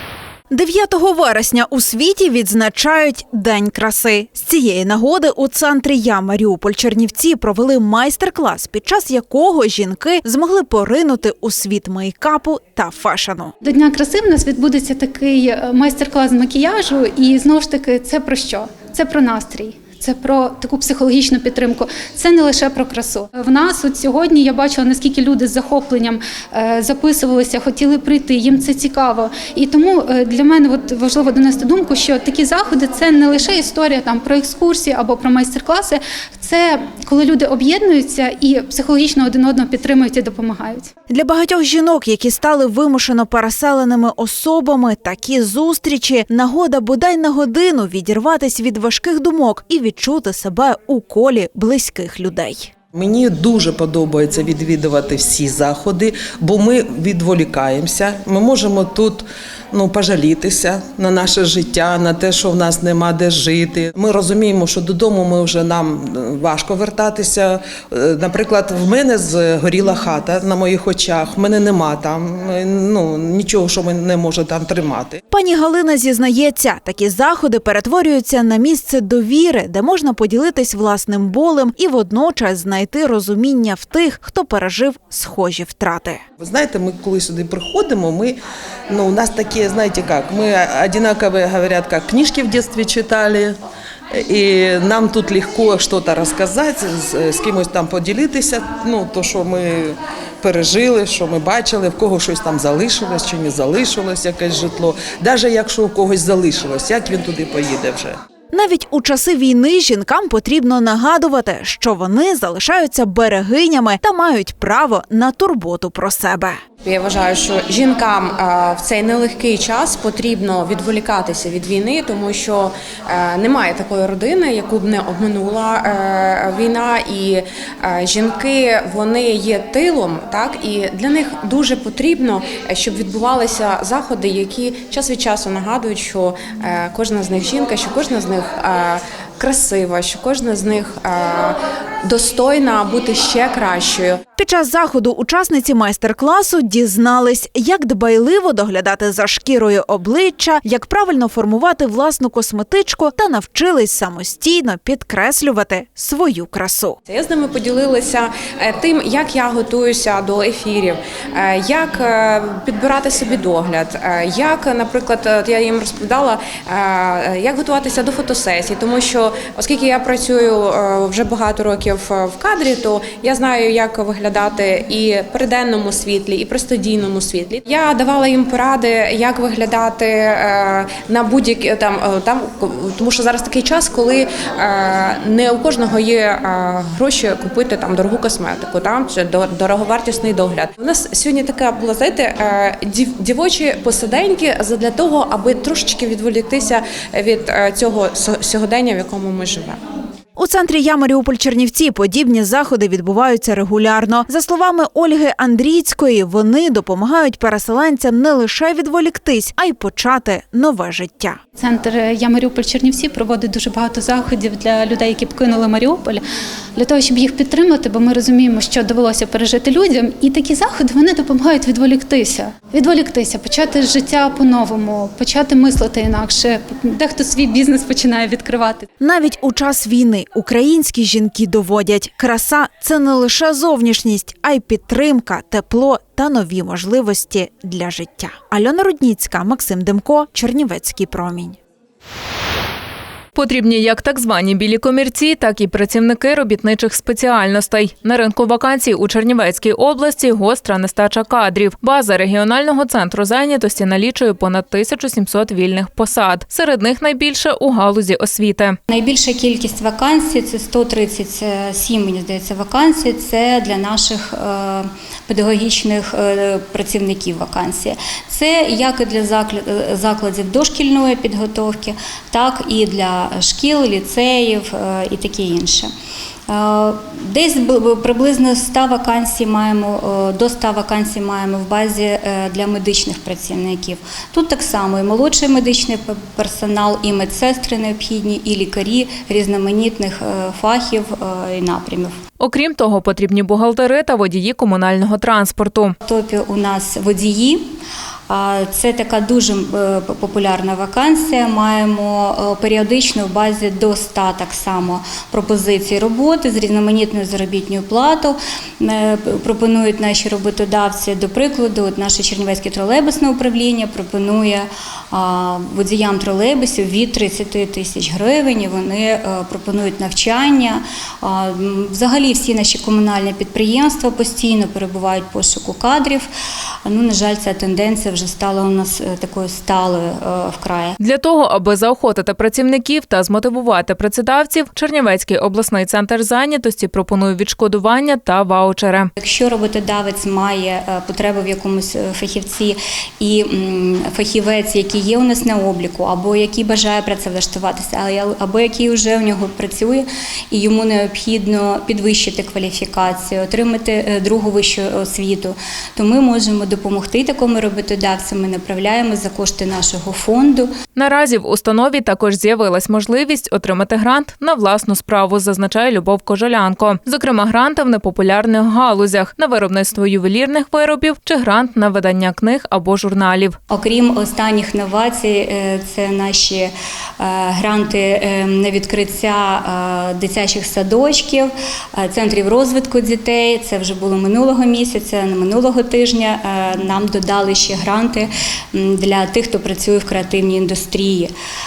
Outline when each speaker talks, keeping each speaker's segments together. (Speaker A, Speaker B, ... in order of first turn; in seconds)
Speaker A: 0.5-13.5, 41.1-52.7, 75.3-86.2, 108.5-116.6, 144.4-157.0, 200.4-211.4, 229.0-241.6
Speaker B: 13.6-40.9, 211.6-216.2, 216.8-228.9
Speaker C: 53.0-75.2, 86.4-93.5, 94.2-108.2
Speaker D: 116.8-144.2, 157.1-199.8
Speaker E: 243.4-258.8, 292.4-295.9, 331.0-339.1, 361.0-373.6
Speaker F: 258.9-275.9, 276.5-292.1, 296.0-297.7, 298.3-326.3, 326.9-331.0, 339.2-360.7, 373.7-391.3